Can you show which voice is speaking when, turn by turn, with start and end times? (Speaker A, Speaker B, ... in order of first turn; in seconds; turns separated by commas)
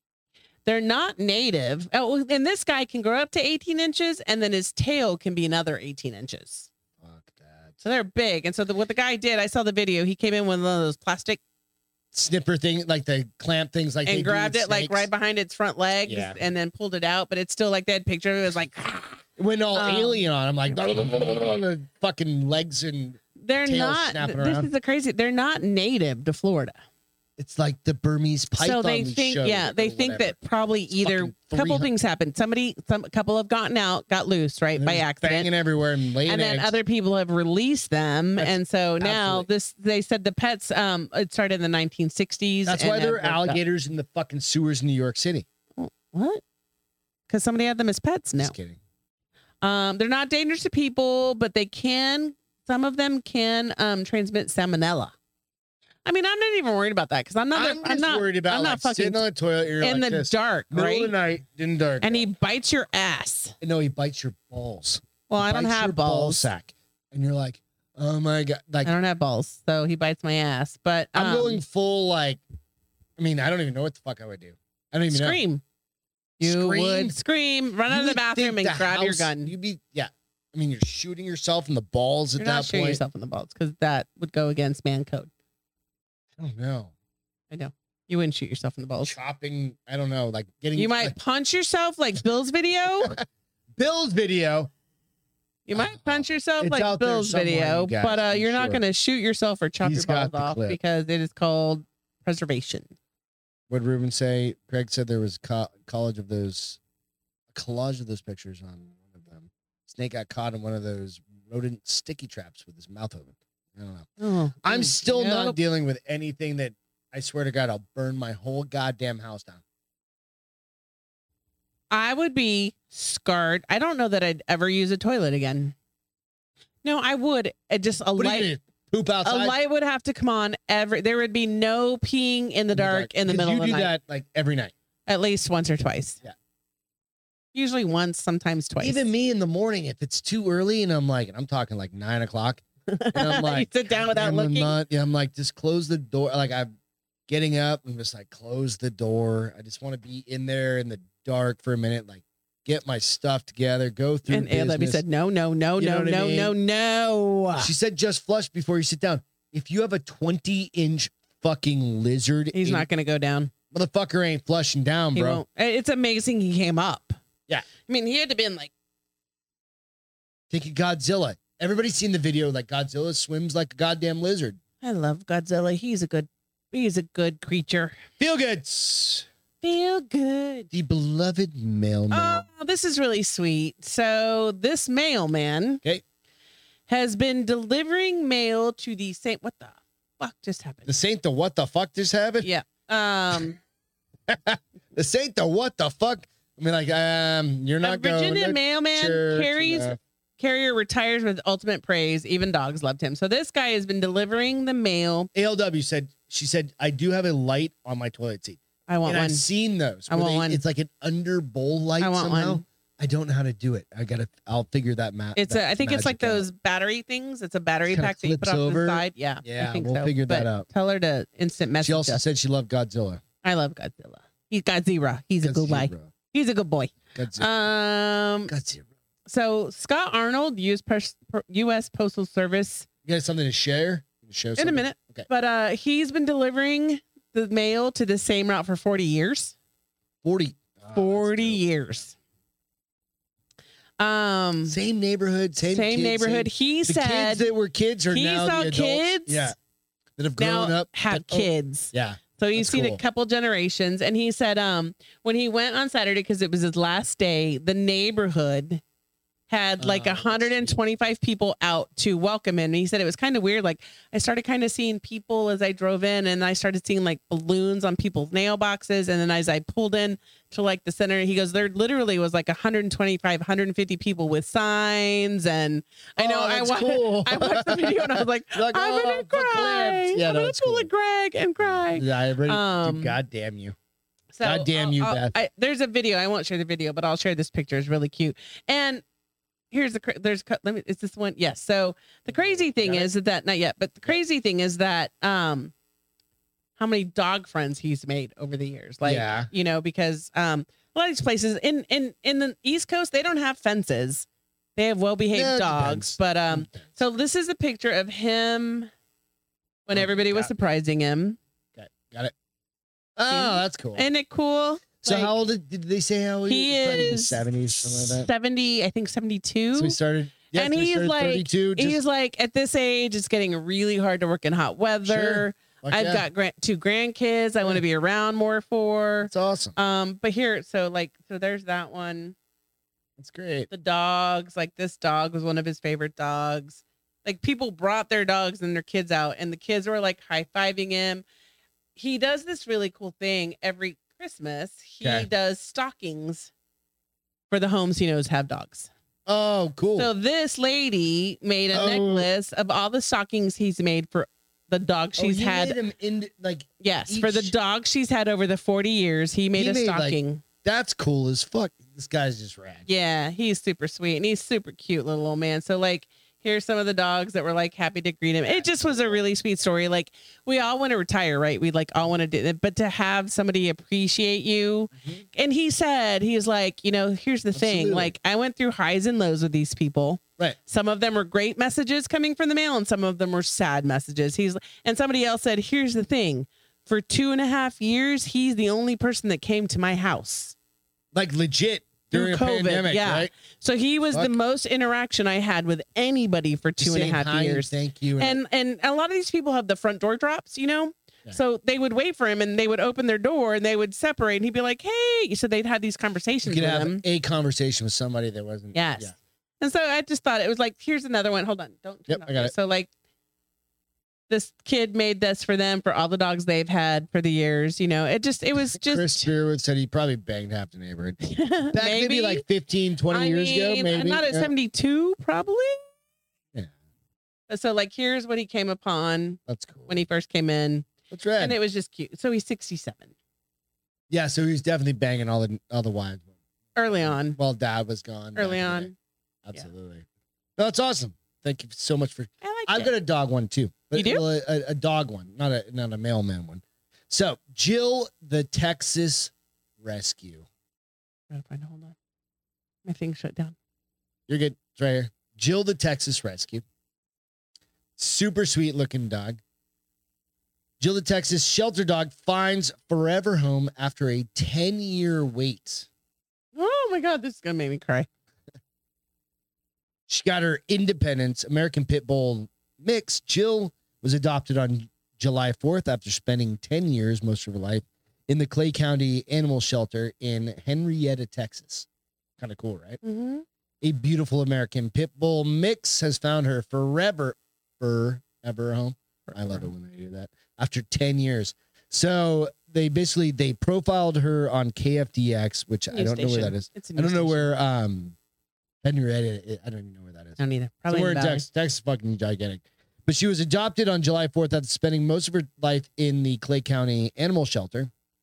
Speaker A: 0.6-6.7, Speaker B: 7.0-7.8, Speaker A: 7.8-11.4, Speaker B: 12.1-15.1, Speaker A: 14.0-20.2, Speaker B: 16.1-16.4, Speaker B: 19.4-24.7, Speaker A: 23.4-26.7, Speaker B: 27.4-30.4, Speaker A: 28.6-35.5, Speaker B: 30.9-31.9, Speaker B: 34.8-36.8, Speaker A: 36.2-43.6, Speaker B: 38.4-39.5, Speaker B: 42.6-45.5, Speaker A: 45.8-46.4, Speaker A: 47.3-48.5, Speaker B: 48.4-48.8, Speaker A: 49.6-55.1, Speaker A: 56.0-59.2, Speaker B: 57.5-62.3, Speaker A: 59.8-61.1, Speaker A: 62.0-63.5, Speaker B: 63.6-68.9, Speaker A: 65.3-66.5, Speaker A: 68.8-71.6, Speaker B: 71.1-72.4, Speaker B: 73.2-75.4, Speaker A: 75.1-75.6, Speaker A: 76.4-79.5, Speaker B: 76.4-77.2, Speaker B: 77.9-83.0, Speaker A: 82.4-85.3, Speaker B: 86.4-86.9, Speaker A: 87.5-89.1, Speaker B: 89.0-91.2, Speaker A: 90.7-93.2, Speaker B: 93.8-94.7, Speaker A: 95.7-102.9, Speaker B: 95.7-98.8, Speaker B: 99.8-100.8, Speaker B: 103.7-106.8, Speaker B: 107.5-114.1, Speaker A: 114.2-115.6, Speaker B: 114.6-119.6, Speaker A: 121.9-125.7, Speaker A: 126.8-128.5, Speaker B: 128.2-129.6, Speaker A: 129.2-133.9, Speaker B: 132.7-134.7, Speaker A: 135.1-136.2, Speaker A: 137.5-139.0, Speaker B: 138.8-146.7, Speaker A: 142.9-144.8, Speaker B: 147.3-155.0, Speaker A: 154.3-157.7, Speaker B: 155.8-156.5, Speaker B: 157.6-162.9, Speaker A: 162.5-163.5, Speaker B: 163.7-165.4, Speaker A: 165.1-167.2, Speaker A: 167.8-168.7, Speaker B: 170.5-174.6, Speaker A: 174.8-178.0, Speaker B: 178.2-179.3, Speaker A: 179.6-180.7, Speaker B: 180.7-182.4, Speaker A: 182.1-185.8, Speaker A: 186.9-190.9, Speaker B: 190.8-192.5, Speaker A: 192.4-193.6, Speaker B: 194.3-200.0, Speaker A: 197.8-205.3, Speaker B: 205.3-216.5, Speaker A: 208.9-209.4, Speaker A: 210.1-210.6, Speaker A: 212.0-212.6, Speaker A: 215.3-222.2, Speaker B: 217.9-220.7, Speaker B: 221.8-223.2, Speaker A: 223.4-228.5, Speaker B: 225.4-226.1, Speaker B: 227.1-227.5, Speaker B: 228.5-228.9, Speaker A: 229.3-232.9, Speaker B: 233.0-235.2, Speaker A: 234.6-239.5, Speaker B: 240.2-241.6, Speaker A: 240.9-242.1, Speaker A: 244.0-244.8, Speaker B: 244.7-249.6, Speaker A: 245.6-247.5, Speaker A: 248.1-249.5, Speaker B: 250.2-253.0, Speaker A: 250.4-258.8, Speaker A: 259.5-283.2, Speaker B: 259.8-260.8, Speaker B: 276.2-280.9, Speaker B: 281.6-283.8, Speaker A: 284.3-289.0, Speaker B: 284.4-285.3, Speaker A: 289.7-295.7, Speaker B: 292.3-293.1, Speaker A: 296.8-308.9, Speaker B: 299.0-299.5, Speaker B: 305.3-306.9, Speaker A: 309.9-311.4, Speaker B: 309.9-310.5, Speaker B: 311.8-312.3, Speaker B: 313.1-314.1, Speaker A: 313.3-315.3, Speaker B: 315.0-318.3, Speaker A: 316.5-320.0, Speaker B: 319.7-322.0, Speaker A: 320.5-332.3, Speaker B: 325.0-326.2, Speaker B: 329.3-329.8, Speaker B: 333.2-333.7, Speaker A: 333.7-341.2, Speaker A: 341.9-346.5, Speaker B: 345.0-345.3, Speaker A: 347.5-348.9, Speaker B: 349.3-350.1, Speaker A: 350.0-355.8, Speaker B: 351.7-352.3, Speaker B: 355.2-357.5, Speaker A: 356.8-360.4, Speaker B: 359.6-362.9, Speaker A: 362.9-390.5, Speaker B: 368.4-369.2, Speaker B: 374.9-375.2, Speaker B: 377.5-378.1, Speaker B: 391.1-393.3, Speaker A: 392.1-407.0, Speaker B: 396.8-398.4, Speaker B: 406.4-409.1, Speaker A: 408.7-412.9, Speaker B: 412.1-412.5, Speaker A: 414.3-419.3, Speaker B: 418.7-421.2, Speaker A: 421.2-422.4, Speaker B: 421.7-424.5, Speaker A: 423.1-425.8, Speaker A: 427.5-430.9, Speaker B: 429.5-430.0, Speaker B: 431.1-431.6, Speaker A: 431.4-433.1, Speaker B: 434.1-436.3, Speaker A: 436.8-437.4, Speaker B: 436.9-438.9, Speaker A: 438.4-438.9, Speaker B: 439.4-440.0, Speaker B: 440.6-450.4, Speaker A: 442.4-442.9, Speaker A: 443.9-444.2, Speaker A: 451.3-451.9, Speaker A: 452.9-453.5, Speaker B: 454.3-456.6, Speaker B: 458.0-459.4, Speaker B: 460.8-465.9, Speaker A: 466.5-468.1, Speaker B: 470.1-481.9, Speaker B: 482.4-483.0, Speaker A: 483.0-483.4, Speaker B: 483.8-498.1, Speaker A: 489.2-489.7, Speaker A: 495.9-497.5, Speaker B: 498.8-507.9, Speaker A: 500.4-501.4